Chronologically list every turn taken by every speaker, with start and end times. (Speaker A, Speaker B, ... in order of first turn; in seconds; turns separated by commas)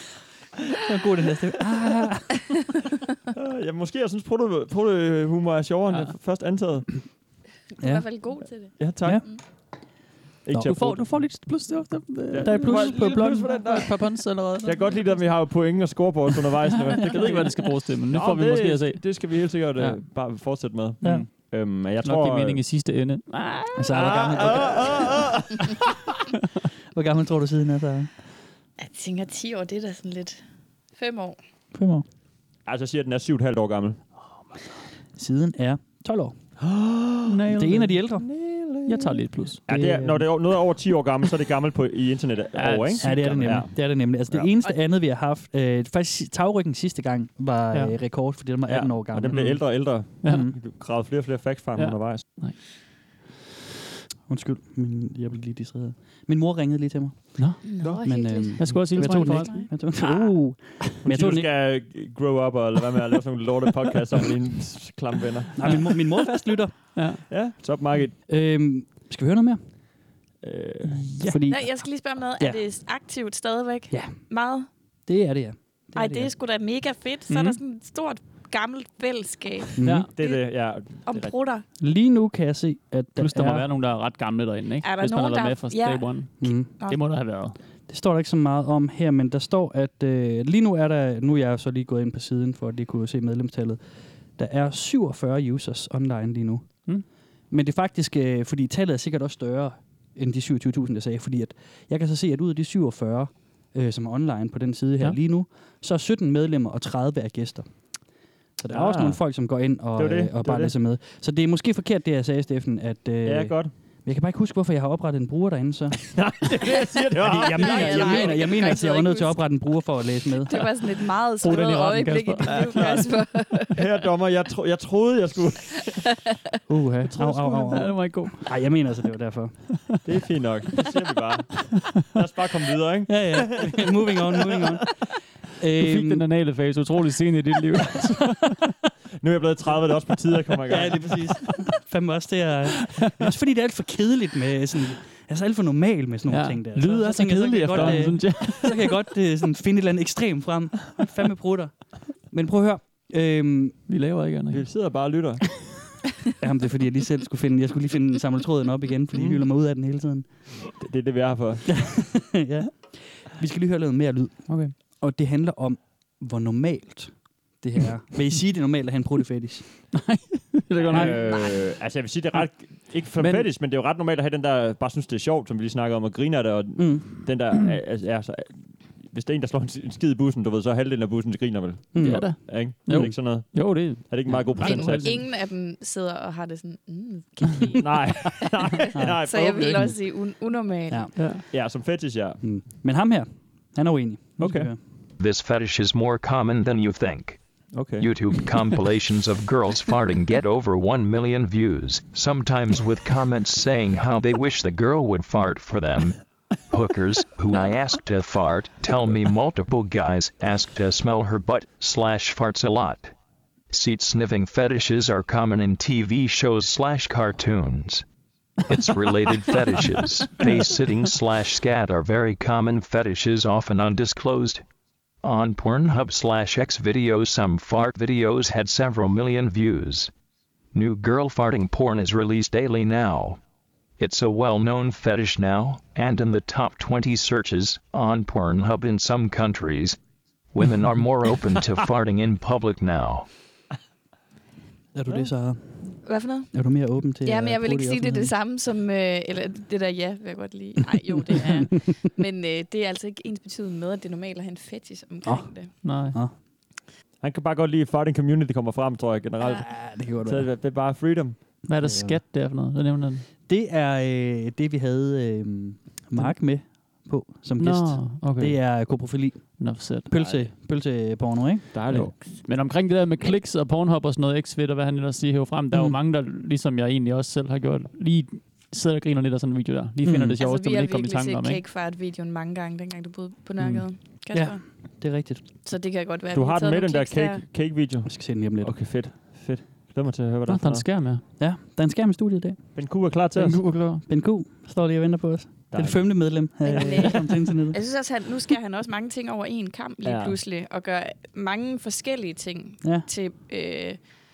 Speaker A: 0.7-2.6, Speaker B: 3.3-6.9, Speaker C: 7.8-9.4, Speaker A: 7.8-9.3, Speaker B: 8.8-9.3, Speaker B: 10.5-11.1, Speaker A: 10.5-11.0, Speaker D: 10.6-15.1, Speaker B: 12.3-13.9, Speaker A: 12.4-13.5, Speaker B: 14.6-17.5, Speaker D: 16.9-20.0, Speaker B: 18.1-22.6, Speaker A: 21.0-21.3, Speaker D: 22.0-24.2, Speaker A: 23.8-25.3, Speaker B: 23.9-25.6, Speaker A: 26.9-28.1, Speaker C: 28.8-30.4, Speaker C: 31.0-31.4, Speaker A: 31.7-32.0, Speaker B: 32.7-34.0, Speaker A: 35.2-36.4, Speaker B: 36.6-37.3, Speaker D: 37.3-38.0, Speaker A: 37.5-38.3, Speaker B: 38.3-39.0, Speaker D: 38.9-39.6, Speaker B: 39.7-43.7, Speaker A: 39.7-40.3, Speaker D: 42.5-43.7, Speaker A: 43.0-49.5, Speaker B: 48.7-52.4, Speaker D: 49.3-50.5, Speaker A: 50.2-50.6, Speaker D: 51.8-52.9, Speaker A: 54.3-61.5, Speaker D: 57.4-57.6, Speaker C: 57.6-59.9, Speaker D: 58.6-59.7, Speaker B: 61.0-65.9, Speaker A: 65.6-67.0, Speaker D: 67.0-67.2, Speaker B: 67.3-68.2, Speaker A: 68.3-69.7, Speaker B: 70.4-71.2, Speaker A: 71.2-72.6, Speaker C: 71.5-74.7, Speaker A: 73.9-74.2, Speaker A: 75.1-76.3, Speaker C: 76.0-81.7, Speaker D: 77.3-77.6, Speaker A: 79.8-80.1, Speaker D: 79.8-80.1, Speaker B: 80.2-81.3, Speaker A: 81.8-83.7, Speaker D: 83.2-87.5, Speaker C: 84.8-87.0, Speaker A: 86.4-86.7, Speaker A: 87.9-108.1, Speaker A: 108.6-116.2, Speaker B: 108.7-109.2, Speaker B: 110.0-110.8, Speaker B: 113.2-113.7, Speaker B: 116.1-118.7, Speaker A: 117.2-120.7, Speaker C: 117.5-119.4, Speaker C: 120.5-123.8, Speaker D: 121.4-123.1, Speaker B: 122.6-123.1, Speaker B: 123.7-126.0, Speaker A: 126.7-129.6, Speaker D: 127.1-128.5, Speaker B: 130.1-133.8, Speaker A: 133.1-135.0, Speaker A: 135.6-136.3, Speaker D: 135.8-138.6, Speaker B: 139.2-141.1, Speaker A: 140.7-153.8, Speaker D: 142.9-143.3, Speaker D: 146.3-148.9, Speaker B: 147.6-148.2, Speaker D: 153.9-154.7, Speaker B: 154.5-155.4, Speaker A: 156.4-160.5, Speaker B: 159.1-159.4, Speaker B: 160.8-161.8, Speaker A: 161.7-169.7, Speaker D: 164.5-164.7, Speaker D: 169.9-171.4, Speaker B: 170.8-185.2, Speaker A: 170.9-171.2, Speaker D: 173.2-173.5, Speaker A: 176.8-177.1, Speaker A: 181.9-183.2, Speaker D: 182.0-185.2, Speaker C: 184.6-191.0, Speaker B: 187.8-189.9, Speaker A: 188.9-189.2, Speaker A: 190.9-191.2, Speaker D: 191.2-191.4, Speaker B: 191.5-192.4, Speaker A: 192.4-194.8, Speaker B: 194.4-194.7, Speaker E: 195.2-197.5, Speaker B: 197.7-198.1, Speaker E: 198.0-213.1, Speaker E: 213.7-218.1, Speaker E: 218.7-224.6, Speaker E: 225.2-230.1, Speaker E: 230.7-233.4, Speaker E: 234.0-240.0, Speaker E: 240.5-243.3, Speaker A: 244.9-248.3, Speaker C: 246.0-255.7, Speaker A: 255.2-256.3, Speaker D: 255.8-256.2, Speaker B: 257.2-261.9, Speaker A: 259.6-260.5, Speaker D: 261.6-263.3, Speaker A: 261.7-262.2, Speaker A: 263.5-272.1, Speaker D: 267.6-269.1, Speaker D: 269.6-270.1, Speaker B: 270.1-270.5, Speaker B: 271.7-272.1, Speaker D: 271.9-281.6, Speaker A: 275.7-276.0, Speaker A: 280.0-280.4, Speaker C: 280.4-285.0, Speaker A: 284.3-285.4, Speaker C: 285.6-287.4, Speaker B: 286.3-290.9, Speaker A: 288.1-288.9, Speaker D: 290.5-291.2, Speaker A: 291.4-292.7, Speaker B: 292.8-293.6, Speaker D: 293.4-294.1, Speaker A: 294.0-297.8, Speaker B: 295.7-296.4, Speaker C: 296.6-304.1, Speaker B: 300.1-300.4, Speaker A: 302.8-303.1